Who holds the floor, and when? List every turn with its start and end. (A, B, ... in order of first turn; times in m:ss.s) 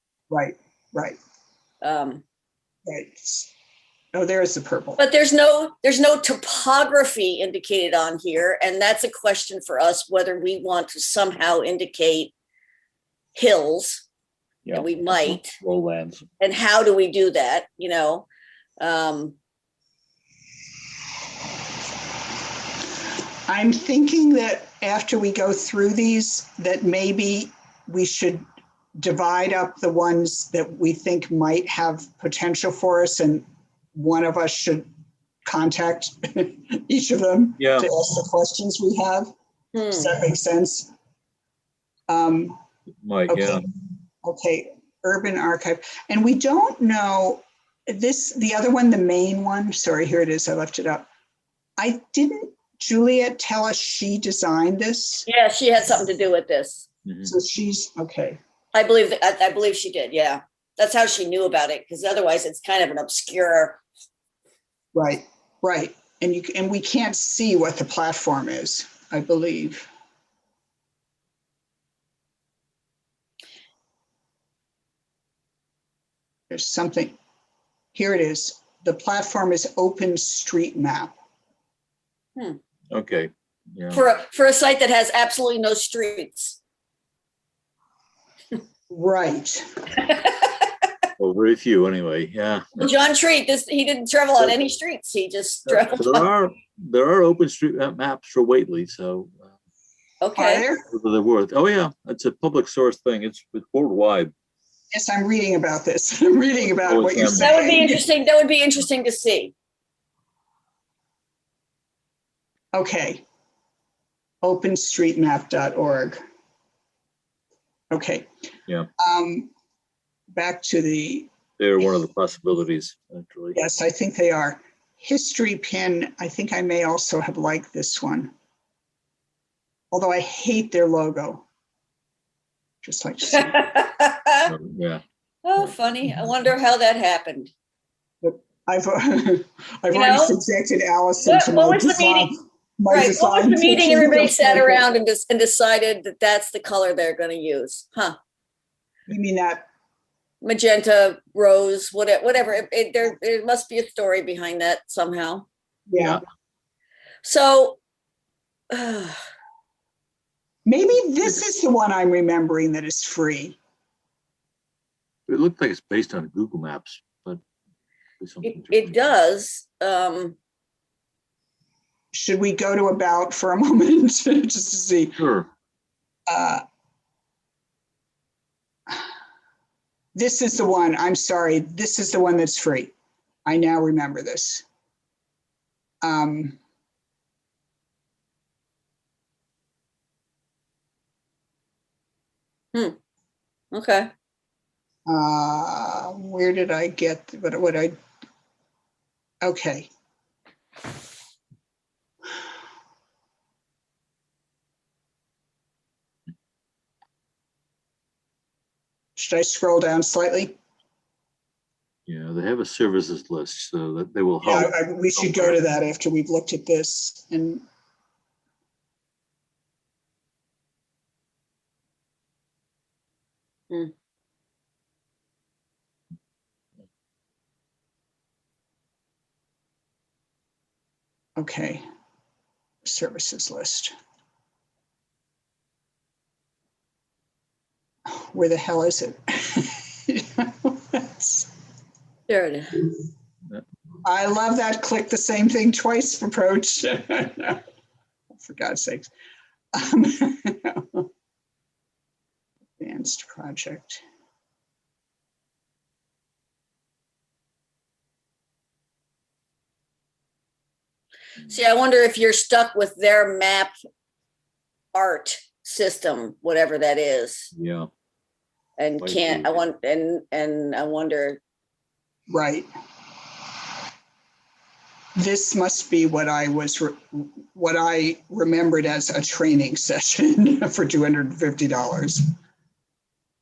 0:00.3-0:01.2 A
0:01.8-0:02.2 B
0:02.8-0:03.5 A
0:04.1-0:05.0 A
0:05.0-0:12.3 B
0:13.3-0:14.0 B
0:14.6-0:16.2 C
0:14.7-0:15.5 B
0:16.4-0:18.2 B
0:18.8-0:19.3 B
0:23.5-0:28.4 A
0:29.0-0:34.9 A
0:35.4-0:39.3 A
0:37.6-0:37.9 C
0:39.7-0:40.1 B
0:39.9-0:40.9 A
0:42.1-0:42.6 A
0:43.0-0:43.6 C
0:43.3-0:43.6 A
0:44.2-0:51.1 A
0:51.8-0:55.3 A
0:55.3-0:56.8 B
0:57.0-0:57.3 C
0:57.2-0:58.4 A
0:58.7-1:03.8 B
1:04.9-1:09.9 A
1:16.5-1:17.2 A
1:17.9-1:21.1 A
1:22.9-1:24.0 C
1:23.9-1:26.6 B
1:28.9-1:29.6 A
1:30.0-1:30.7 B
1:31.2-1:32.9 C
1:32.8-1:36.2 B
1:35.7-1:39.5 C
1:40.2-1:40.6 B
1:40.4-1:40.8 A
1:40.9-1:44.3 C
1:44.9-1:48.0 A
1:46.8-1:47.7 C
1:47.4-1:49.5 B
1:52.7-1:53.2 A
1:54.4-1:56.2 A
1:57.9-1:58.3 A
1:59.0-1:59.5 A
2:00.3-2:01.3 A
2:01.6-2:03.6 C
2:03.5-2:08.3 A
2:09.9-2:11.4 A
2:12.8-2:13.6 A
2:13.3-2:14.5 B
2:14.4-2:15.0 C
2:15.4-2:17.5 B
2:18.2-2:24.8 A
2:19.9-2:20.4 B
2:21.2-2:22.3 B
2:22.9-2:28.2 B
2:29.1-2:29.6 A
2:30.4-2:35.4 B
2:35.9-2:36.2 A
2:37.2-2:37.8 B
2:38.7-2:39.2 B
2:40.6-2:43.6 A
2:45.3-2:47.4 C
2:48.2-2:49.1 C
2:48.4-2:50.4 B
2:52.1-2:55.2 A
2:55.2-2:55.5 C
2:56.3-2:56.6 A
3:00.1-3:02.9 A
3:03.4-3:04.6 A
3:06.0-3:06.6 A
3:13.7-3:14.1 B
3:15.1-3:17.9 A
3:19.4-3:19.9 A
3:29.2-3:30.6 A
3:32.1-3:35.6 C
3:34.4-3:37.6 A
3:51.4-3:51.8 A
3:52.8-3:53.9 A
3:58.1-4:01.5 A
4:02.3-4:02.8 B
4:04.0-4:07.6 A
4:08.3-4:09.1 A
4:09.7-4:11.0 A
4:12.8-4:14.0 A
4:21.5-4:23.7 B
4:24.9-4:27.5 B
4:27.5-4:27.9 C
4:28.8-4:31.4 B
4:29.0-4:29.6 C
4:32.3-4:32.7 A
4:35.2-4:42.3 A